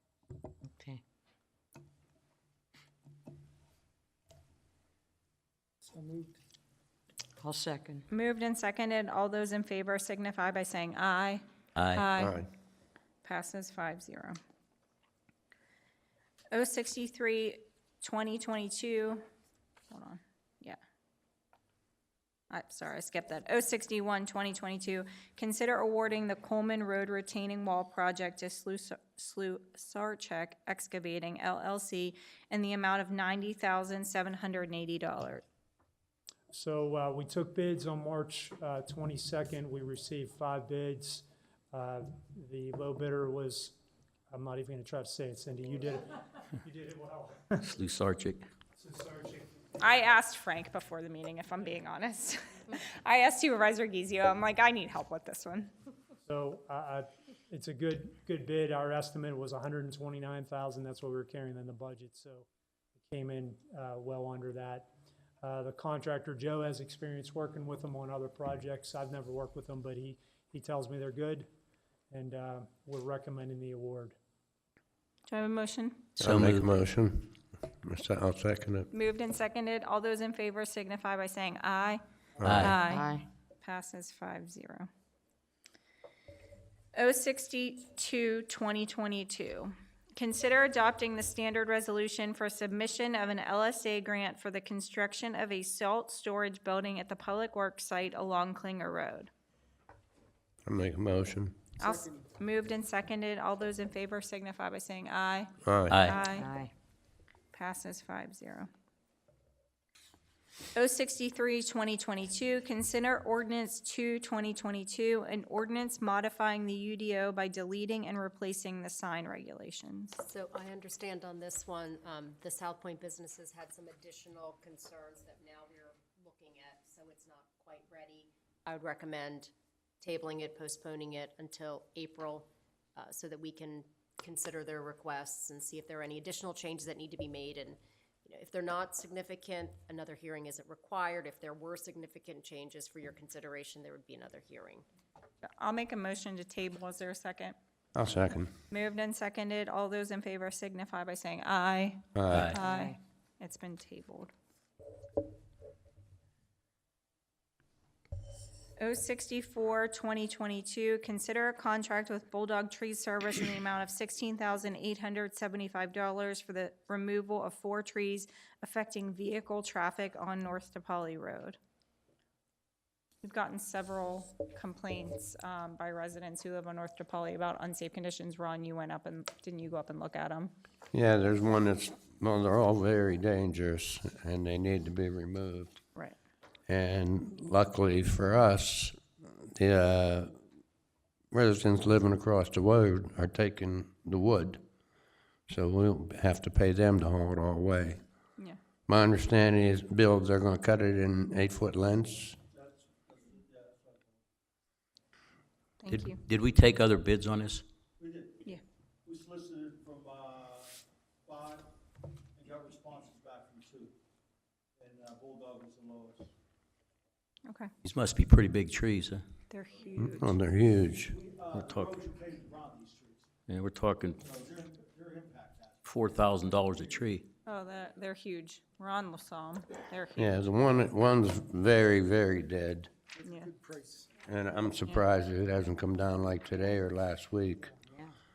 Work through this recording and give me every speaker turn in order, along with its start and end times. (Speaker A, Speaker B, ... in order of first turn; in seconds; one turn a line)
Speaker A: 0.7-1.0
Speaker A: 5.9-6.3
Speaker A: 7.4-8.1
Speaker B: 8.1-11.4
Speaker C: 11.8-12.0
Speaker B: 11.9-12.4
Speaker D: 12.2-12.5
Speaker B: 13.2-14.4
Speaker B: 16.5-19.2
Speaker B: 19.9-20.8
Speaker B: 22.5-35.4
Speaker E: 36.5-43.8
Speaker E: 44.3-47.7
Speaker C: 47.7-48.4
Speaker E: 48.8-49.8
Speaker B: 49.8-55.7
Speaker E: 56.2-62.5
Speaker E: 63.0-64.9
Speaker E: 65.4-71.5
Speaker E: 72.1-74.2
Speaker B: 75.3-76.1
Speaker C: 76.2-76.7
Speaker D: 76.2-78.9
Speaker B: 78.9-82.0
Speaker D: 82.4-82.7
Speaker C: 82.4-82.8
Speaker B: 82.6-84.9
Speaker A: 82.9-83.3
Speaker B: 87.0-99.3
Speaker D: 100.7-101.6
Speaker B: 101.8-105.5
Speaker D: 105.7-106.0
Speaker C: 105.9-106.2
Speaker B: 106.0-106.5
Speaker A: 106.3-106.7
Speaker B: 107.5-108.7
Speaker B: 110.8-120.2
Speaker F: 120.2-144.8
Speaker B: 145.6-147.6
Speaker D: 147.9-148.5
Speaker B: 148.7-154.3
Speaker D: 152.2-152.6
Speaker C: 152.3-152.6
Speaker B: 158.8-171.6
Speaker B: 173.2-180.5
Speaker D: 180.9-185.8
Speaker D: 186.7-189.0
Speaker D: 189.6-190.3
Speaker D: 191.3-194.6
Speaker D: 195.5-198.0
Speaker D: 198.9-202.3
Speaker G: 202.5-204.2
Speaker B: 205.8-206.2
Speaker C: 205.9-207.6
Speaker G: 208.0-211.8
Speaker G: 212.3-213.9
Speaker G: 214.8-216.3
Speaker C: 217.8-219.2
Speaker B: 219.5-220.3
Speaker D: 220.0-221.2
Speaker G: 221.1-223.3
Speaker C: 221.5-222.0
Speaker C: 223.5-224.2
Speaker G: 224.2-225.8
Speaker C: 225.8-227.2
Speaker B: 227.5-230.4
Speaker D: 230.2-232.9
Speaker B: 233.2-233.5
Speaker G: 233.2-234.1
Speaker D: 234.2-237.7